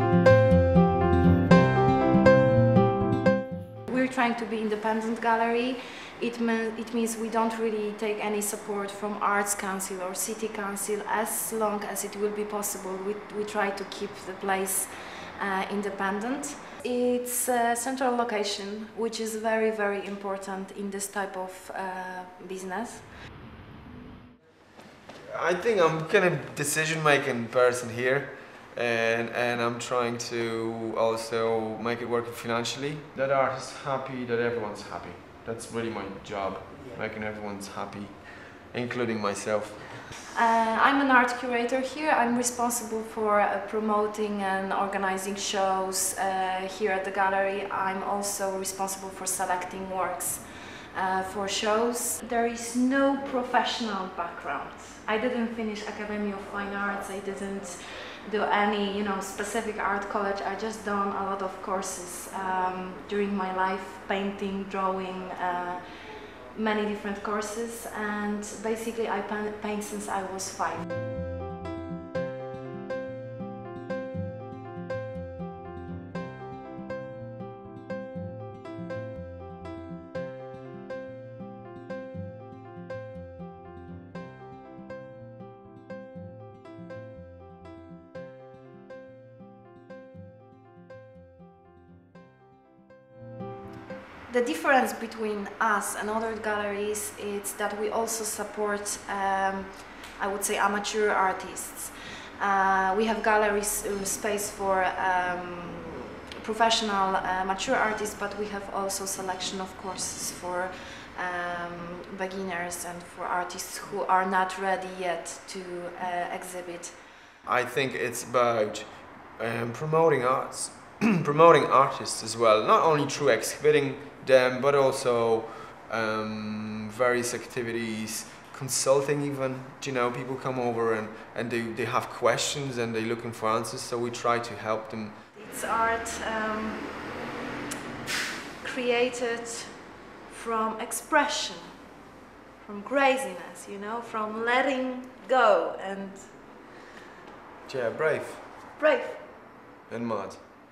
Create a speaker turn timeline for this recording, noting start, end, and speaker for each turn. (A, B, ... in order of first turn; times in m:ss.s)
0:03.9-0:23.1 A
0:25.3-0:40.0 B
0:40.3-1:10.8 A
1:34.3-1:57.2 A
1:57.4-2:15.2 B
2:15.3-2:17.1 A
2:18.6-2:21.8 A
2:22.6-2:26.7 A
2:27.6-2:28.5 B
2:28.8-2:29.5 A
2:29.9-2:30.4 B